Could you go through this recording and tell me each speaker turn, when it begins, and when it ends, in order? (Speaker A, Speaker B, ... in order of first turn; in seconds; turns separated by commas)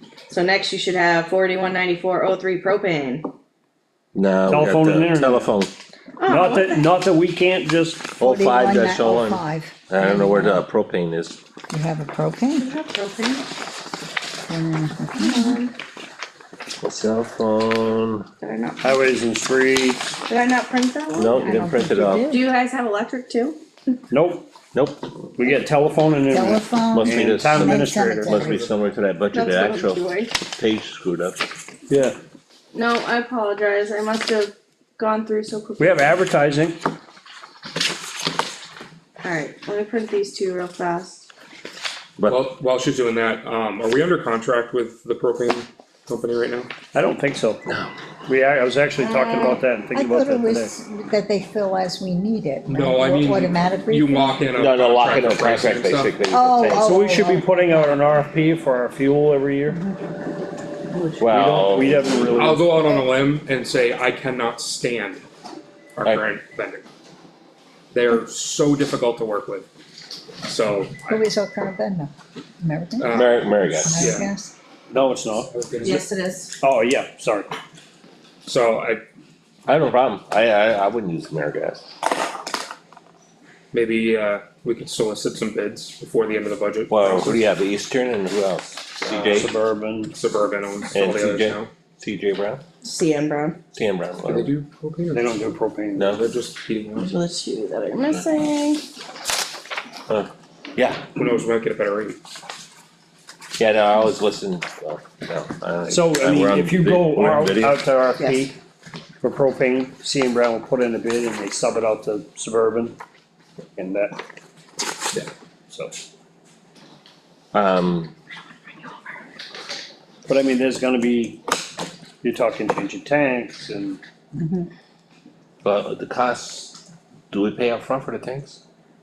Speaker A: 0.3-3.3, Speaker B: 4.1-5.7, Speaker C: 4.5-5.5, Speaker A: 6.2-6.9, Speaker C: 6.2-8.1, Speaker B: 8.2-11.4, Speaker D: 8.2-10.6, Speaker D: 11.7-12.7, Speaker A: 12.6-13.4, Speaker D: 14.4-15.6, Speaker A: 15.2-15.7, Speaker B: 16.8-18.3, Speaker A: 18.4-19.0, Speaker C: 18.8-20.0, Speaker A: 20.3-21.3, Speaker B: 21.1-22.3, Speaker D: 21.3-22.4, Speaker A: 22.3-23.6, Speaker C: 24.1-24.5, Speaker B: 24.7-25.3, Speaker C: 25.4-28.4, Speaker D: 26.3-28.6, Speaker B: 26.9-27.8, Speaker B: 28.3-31.4, Speaker A: 29.3-30.3, Speaker C: 31.9-32.1, Speaker A: 32.7-36.2, Speaker C: 35.8-36.8, Speaker A: 39.2-41.2, Speaker B: 42.2-42.4, Speaker E: 42.2-46.7, Speaker C: 46.9-50.7, Speaker A: 49.0-49.6, Speaker D: 49.9-54.5, Speaker E: 52.6-56.2, Speaker B: 54.5-56.9, Speaker D: 56.3-58.1, Speaker C: 56.8-59.8, Speaker D: 59.7-60.0, Speaker B: 61.2-62.5, Speaker C: 61.2-62.9, Speaker E: 62.4-65.2, Speaker E: 65.9-66.8, Speaker E: 67.9-69.7, Speaker E: 70.4-71.2, Speaker D: 71.1-73.2, Speaker E: 73.0-74.3, Speaker B: 73.1-74.1, Speaker D: 73.8-74.5, Speaker C: 74.9-75.5, Speaker E: 75.3-76.0, Speaker A: 75.8-76.5, Speaker C: 76.6-77.5, Speaker E: 78.4-79.0, Speaker B: 79.7-81.9, Speaker E: 83.7-87.4, Speaker B: 86.9-89.5, Speaker E: 89.0-89.5, Speaker C: 89.3-90.2, Speaker E: 90.1-91.7, Speaker B: 90.9-92.6, Speaker A: 92.8-93.6, Speaker B: 93.7-94.5, Speaker E: 94.2-95.3, Speaker C: 95.1-96.2, Speaker E: 96.1-97.1, Speaker A: 97.0-98.8, Speaker B: 100.1-101.0, Speaker E: 101.2-102.2, Speaker B: 103.6-107.8, Speaker C: 105.9-108.5, Speaker C: 109.2-113.0, Speaker C: 113.8-114.2, Speaker C: 115.7-116.0, Speaker B: 117.5-118.1, Speaker C: 120.2-121.4, Speaker C: 122.2-124.0, Speaker D: 124.3-124.7, Speaker B: 125.6-126.8, Speaker B: 127.3-128.6